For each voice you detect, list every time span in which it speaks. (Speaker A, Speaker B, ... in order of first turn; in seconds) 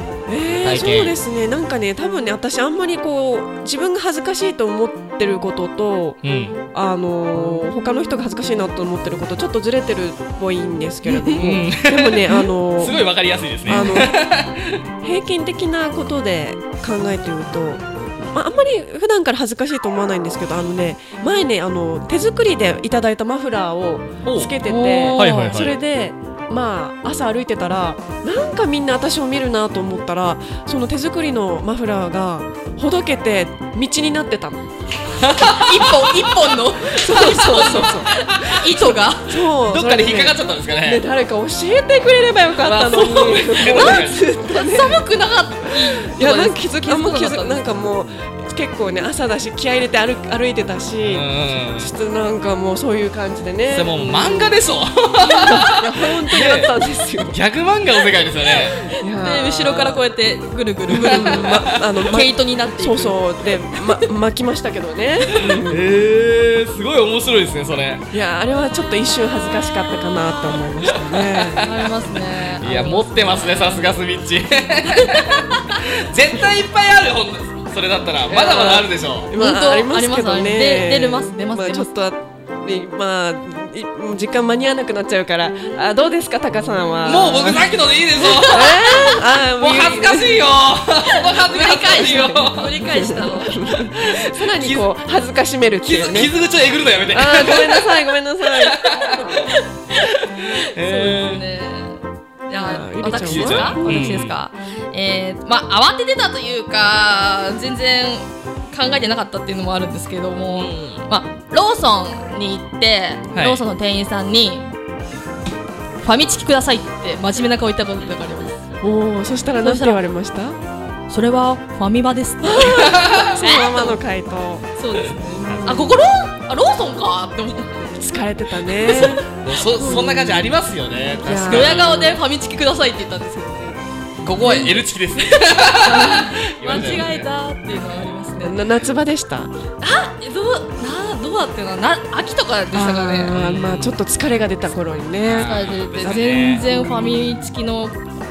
Speaker A: 0.3-6.2, 6.7-13.0, 13.7-14.2, 15.0-34.6, 36.9-38.1, 39.3-45.0, 46.0-54.1, 55.2-57.4, 58.9-60.0, 60.9-65.8, 68.1-71.7, 78.3-87.7, 88.4-90.4, 92.6-96.3, 97.1-99.3, 102.5-103.9, 118.8-120.6, 122.4-124.7, 125.3-125.8, 127.9-130.5, 131.2-132.0, 135.8-136.3, 138.4-139.5, 142.7-145.5, 146.6-147.4
Speaker B: 0.6-1.1, 6.2-6.5, 11.3-14.8, 24.2-24.6, 25.1-25.8, 35.2-36.0, 37.2-38.6, 39.6-41.0, 42.6-44.2, 51.0-51.9, 53.7-56.7, 57.3-58.8, 61.0-61.3, 65.3-68.0, 71.2-71.5, 72.6-79.3, 87.0-92.8, 93.7-94.9, 95.8-99.2, 100.0-101.4, 103.2-104.3, 110.5-111.0, 113.3-113.6, 122.8-123.3, 125.5-125.9, 128.8-132.2, 134.2-138.1, 143.3-144.0, 145.2-146.6
Speaker C: 24.6-25.6, 35.4-39.4, 43.6-47.7, 58.8-63.2, 71.6-73.2, 75.2-75.8, 79.3-81.9, 88.2-89.2, 91.1-93.5, 99.1-100.1, 100.7-114.7, 116.0-118.6, 119.6-120.0, 121.1-124.0, 124.8-127.8, 131.5-133.8, 134.4-138.6, 139.8-143.3, 145.4-147.9